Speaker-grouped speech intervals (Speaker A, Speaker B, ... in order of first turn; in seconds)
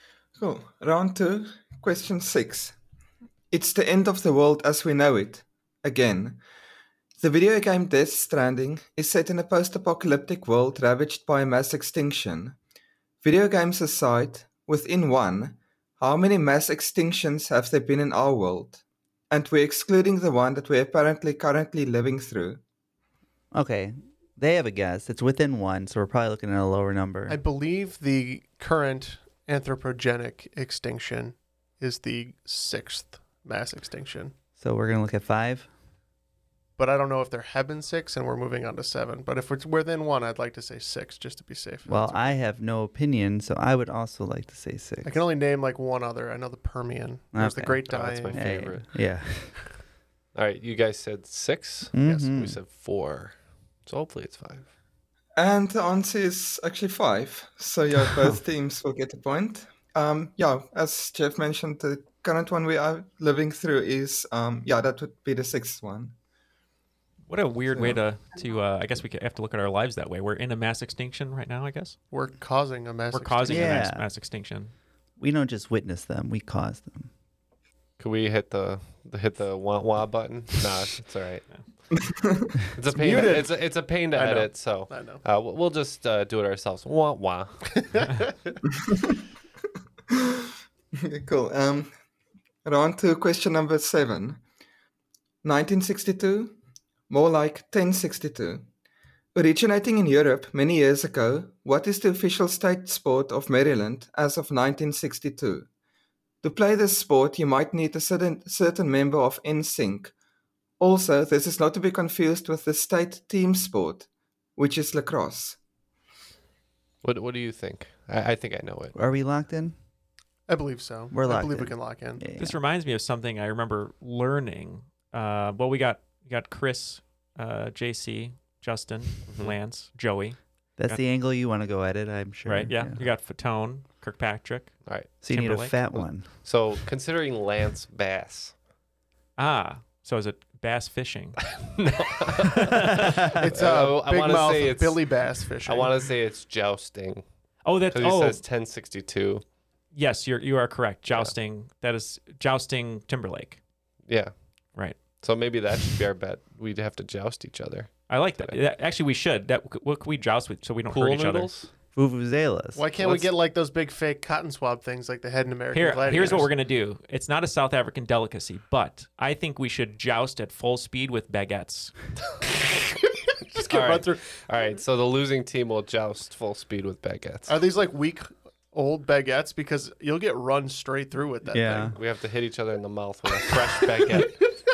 Speaker A: 0.4-2.7, 3.5-6.4, 7.2-12.6, 13.2-22.6, 55.4-66.1, 82.0-82.5, 88.9-89.1, 90.1-90.4, 91.0-91.9, 92.6-94.4, 95.4-96.5, 97.1-98.7, 99.3-105.7, 106.4-110.1, 110.8-115.6
Speaker B: 23.5-27.4, 34.6-35.7, 41.9-45.2, 47.3-49.6, 51.9-52.6, 73.5-74.1, 75.2-77.1, 118.9-119.8, 121.1-122.6, 130.8-133.0, 135.2-136.3, 142.8-143.1, 161.9-162.8, 181.5-181.9
Speaker C: 27.3-34.3, 36.8-42.4, 45.0-48.6, 72.1-73.8, 82.9-85.2, 87.7-88.5, 120.5-122.2, 143.3-146.0, 162.7-166.5, 173.5-174.3, 177.5-181.9, 183.4-184.5
Speaker D: 47.9-48.8, 50.3-54.7, 78.0-81.5, 82.8-87.7, 117.0-118.9, 129.2-129.6, 134.8-135.1, 136.4-138.5, 141.5-147.2, 147.9-149.4, 151.1-151.3, 154.1-154.3, 155.2-158.6, 160.9-161.7, 163.0-163.3, 173.7-177.6, 181.9-184.4
Speaker E: 67.3-72.0, 73.1-74.7, 122.4-131.0, 132.4-135.8, 139.4-141.4, 147.6-148.4, 149.9-153.6, 154.7-155.0, 158.1-161.5, 165.7-171.9